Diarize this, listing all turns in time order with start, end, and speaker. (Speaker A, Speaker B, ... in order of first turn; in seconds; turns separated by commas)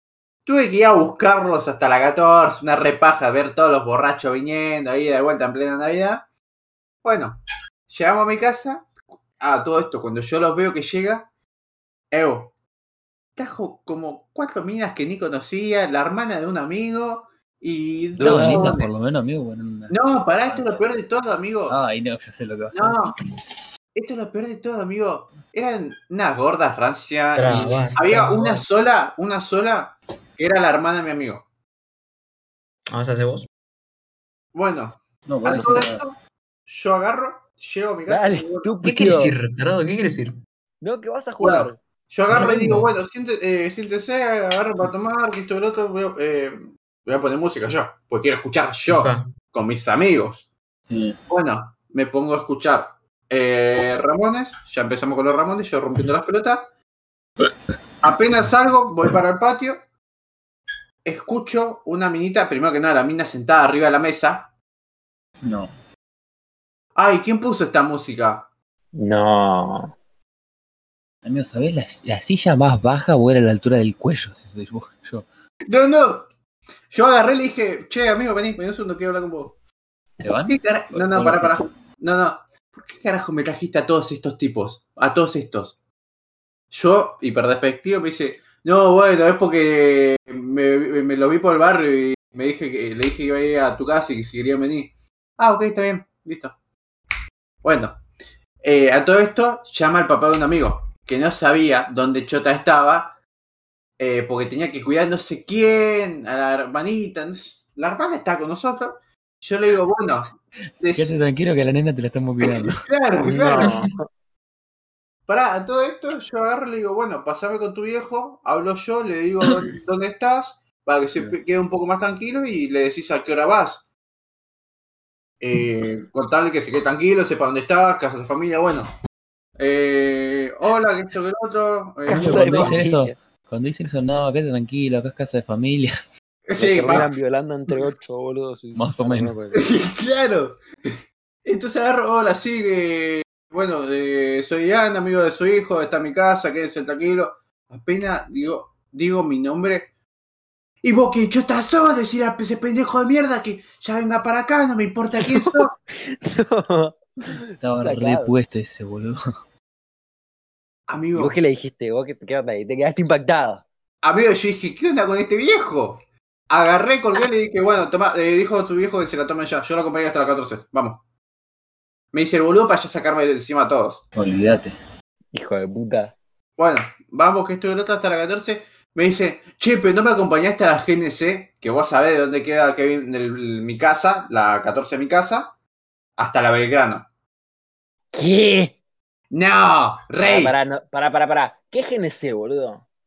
Speaker A: 0.4-6.2, Speaker A: 7.0-8.9, Speaker A: 9.4-11.2, Speaker A: 12.1-12.5, Speaker A: 13.3-18.9, Speaker B: 18.2-20.8, Speaker C: 18.3-18.7, Speaker A: 19.9-21.8, Speaker B: 21.7-23.0, Speaker A: 22.7-23.1, Speaker A: 23.9-31.4, Speaker C: 27.3-28.6, Speaker B: 27.5-27.9, Speaker C: 32.9-33.5, Speaker A: 34.5-36.1, Speaker B: 35.3-36.0, Speaker A: 36.6-38.7, Speaker D: 38.1-39.3, Speaker C: 38.8-40.4, Speaker D: 40.8-41.8, Speaker A: 41.4-50.5, Speaker C: 42.3-42.9, Speaker C: 48.8-49.3, Speaker B: 50.9-51.1, Speaker A: 51.3-56.7, Speaker A: 58.0-59.8, Speaker A: 61.0-64.5, Speaker B: 65.4-65.7, Speaker A: 67.0-68.5, Speaker D: 69.0-69.9, Speaker B: 71.2-75.2, Speaker A: 75.7-76.2, Speaker A: 76.9-79.5, Speaker B: 80.2-81.6, Speaker A: 80.5-85.7, Speaker A: 86.7-96.5, Speaker A: 97.6-98.0, Speaker A: 98.6-103.2, Speaker A: 104.0-110.3, Speaker A: 110.8-111.2, Speaker B: 110.8-112.7, Speaker A: 112.4-113.8, Speaker D: 113.2-114.0, Speaker A: 115.3-123.8, Speaker A: 125.4-128.9, Speaker A: 129.6-132.8, Speaker D: 132.1-133.1, Speaker B: 132.1-135.9, Speaker A: 136.4-137.1, Speaker D: 136.6-139.6, Speaker B: 138.7-139.3, Speaker A: 139.5-140.6, Speaker A: 141.4-149.9, Speaker A: 150.8-155.7, Speaker D: 155.3-158.3, Speaker B: 157.6-159.2, Speaker A: 160.9-161.3, Speaker D: 161.1-163.6, Speaker A: 164.0-166.0, Speaker A: 166.5-171.0, Speaker A: 172.1-174.0, Speaker B: 174.2-174.7, Speaker D: 175.3-176.2, Speaker A: 176.6-185.5, Speaker A: 186.2-187.1, Speaker D: 188.1-188.7, Speaker A: 189.3-190.5, Speaker D: 190.2-192.8